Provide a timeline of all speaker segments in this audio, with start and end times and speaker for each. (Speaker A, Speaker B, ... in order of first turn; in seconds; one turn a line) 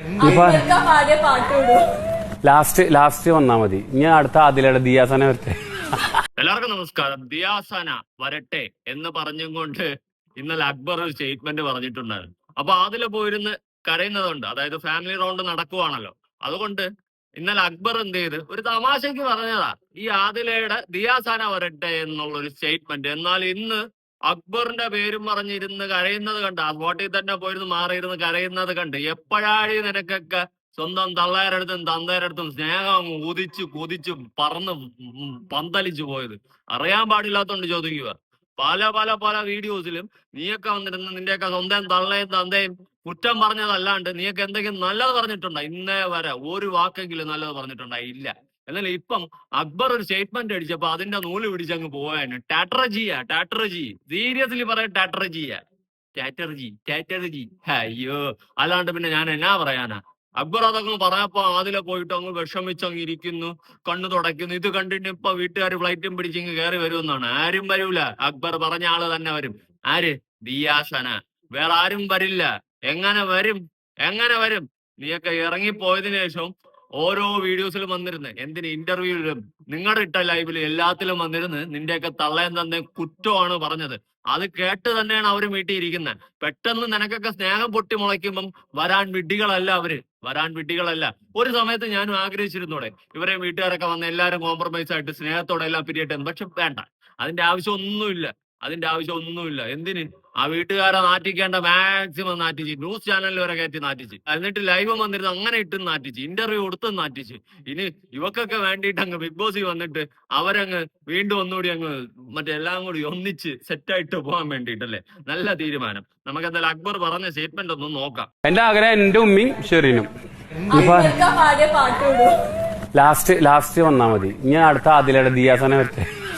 Speaker A: 0.2-1.8
Speaker B: 0.2-0.6
Speaker B: 2.4-5.5
Speaker C: 6.4-9.8
Speaker C: 10.4-16.9
Speaker C: 17.4-55.6
Speaker C: 56.1-118.3
Speaker B: 118.4-120.1
Speaker A: 120.7-122.3
Speaker B: 120.7-121.2
Speaker B: 122.9-126.0